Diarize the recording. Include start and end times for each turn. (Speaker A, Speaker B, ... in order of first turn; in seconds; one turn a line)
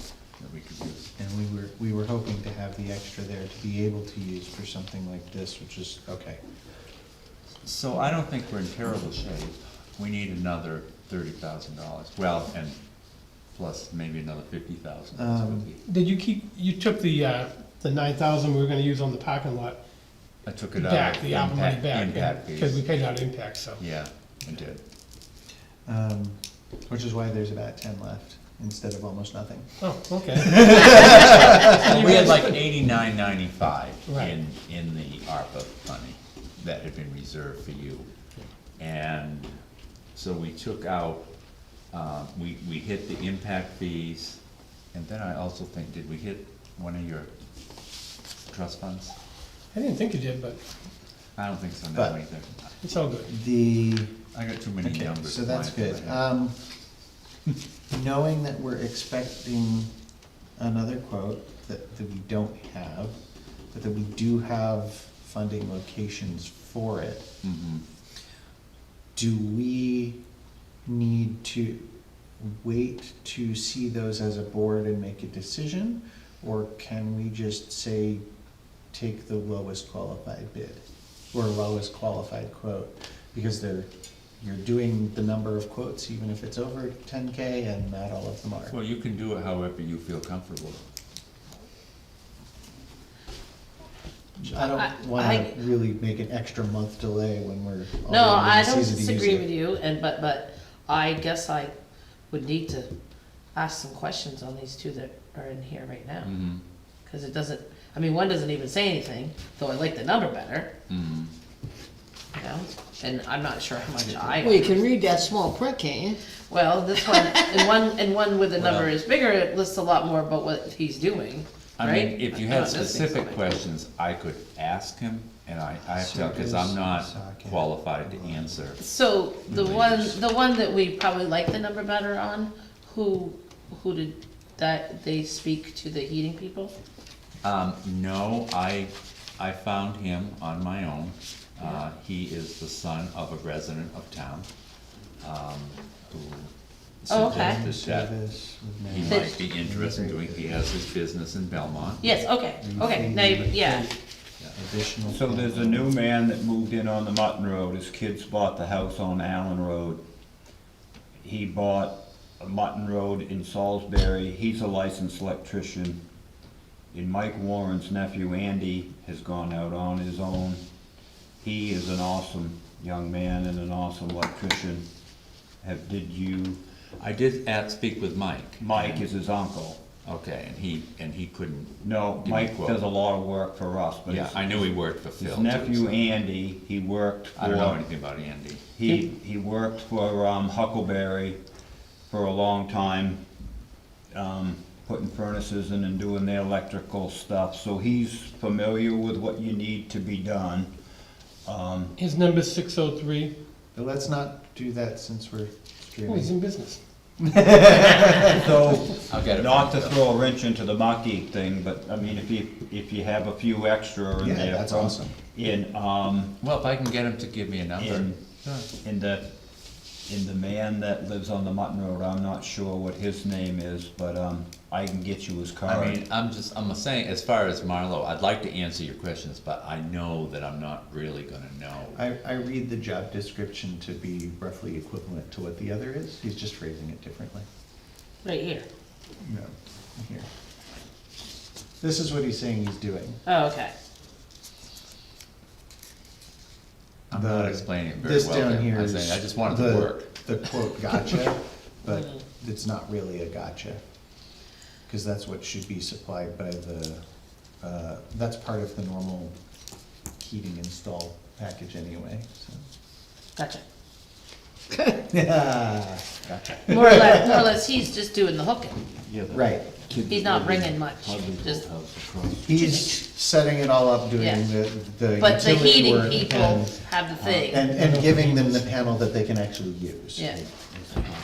Speaker A: 0.4-1.1
Speaker B: 1.2-6.4
Speaker A: 7.6-12.8
Speaker A: 13.5-15.8
Speaker B: 15.2-15.7
Speaker C: 15.8-19.8
Speaker A: 20.4-22.8
Speaker C: 20.7-23.8
Speaker A: 23.8-24.8
Speaker B: 25.9-29.7
Speaker C: 29.8-32.6
Speaker B: 30.4-31.9
Speaker A: 30.6-38.1
Speaker C: 34.1-34.4
Speaker A: 38.8-39.6
Speaker A: 40.1-41.3
Speaker A: 41.9-44.4
Speaker A: 44.9-47.3
Speaker A: 48.5-49.1
Speaker C: 49.7-50.6
Speaker A: 51.4-52.6
Speaker C: 52.8-53.3
Speaker B: 53.3-54.3
Speaker A: 54.3-56.2
Speaker B: 54.8-56.5
Speaker B: 57.9-59.9
Speaker B: 60.6-63.2
Speaker B: 63.7-67.3
Speaker A: 67.4-67.8
Speaker B: 69.2-70.2
Speaker B: 70.8-71.8
Speaker B: 72.4-78.2
Speaker B: 78.9-83.9
Speaker B: 84.4-88.8
Speaker A: 88.7-90.9
Speaker B: 94.4-99.5
Speaker D: 94.7-95.5
Speaker D: 98.1-101.8
Speaker D: 102.3-102.9
Speaker D: 103.5-106.3
Speaker A: 106.2-106.6
Speaker D: 107.1-110.7
Speaker A: 110.9-111.3
Speaker D: 112.3-114.9
Speaker A: 114.0-114.4
Speaker E: 114.4-116.2
Speaker D: 116.5-123.4
Speaker E: 117.0-117.6
Speaker A: 118.6-118.9
Speaker A: 121.8-128.8
Speaker B: 125.9-128.6
Speaker D: 128.8-136.7
Speaker A: 129.5-130.2
Speaker A: 137.4-144.5
Speaker A: 145.2-146.5
Speaker A: 147.1-148.1
Speaker D: 147.1-147.6
Speaker B: 147.1-150.6
Speaker A: 148.9-152.1
Speaker D: 149.1-149.3
Speaker D: 152.0-153.9
Speaker B: 152.6-155.9
Speaker F: 155.1-160.0
Speaker F: 161.2-166.0
Speaker F: 166.9-170.6
Speaker F: 171.4-174.9
Speaker F: 175.6-176.6
Speaker A: 177.0-179.1
Speaker F: 178.6-179.8
Speaker A: 180.0-182.8
Speaker F: 181.8-187.8
Speaker A: 184.1-186.1
Speaker A: 187.4-189.0
Speaker F: 188.8-191.4
Speaker F: 192.1-193.2
Speaker F: 194.1-200.7
Speaker F: 201.4-201.9
Speaker C: 202.0-203.3
Speaker B: 203.8-206.3
Speaker C: 206.1-206.8
Speaker B: 207.2-208.5
Speaker F: 207.6-216.3
Speaker A: 209.0-210.0
Speaker B: 214.2-215.1
Speaker A: 216.4-218.6
Speaker F: 217.8-218.2
Speaker F: 218.8-219.3
Speaker F: 220.1-226.0
Speaker A: 225.7-232.0
Speaker B: 231.9-237.5
Speaker D: 238.2-238.7
Speaker B: 239.2-240.3
Speaker B: 241.8-243.2
Speaker D: 243.3-243.7
Speaker A: 247.1-250.1
Speaker B: 247.1-253.8
Speaker D: 251.9-252.2
Speaker B: 254.9-257.0
Speaker B: 257.6-259.4
Speaker B: 260.2-262.6
Speaker D: 263.4-263.6
Speaker B: 265.1-267.5
Speaker D: 266.7-268.8
Speaker B: 269.3-269.7
Speaker D: 270.1-271.7
Speaker E: 270.2-270.8
Speaker B: 272.4-280.4
Speaker D: 272.6-273.0
Speaker D: 274.2-274.5
Speaker D: 275.2-277.7
Speaker C: 277.7-278.6
Speaker D: 280.2-280.4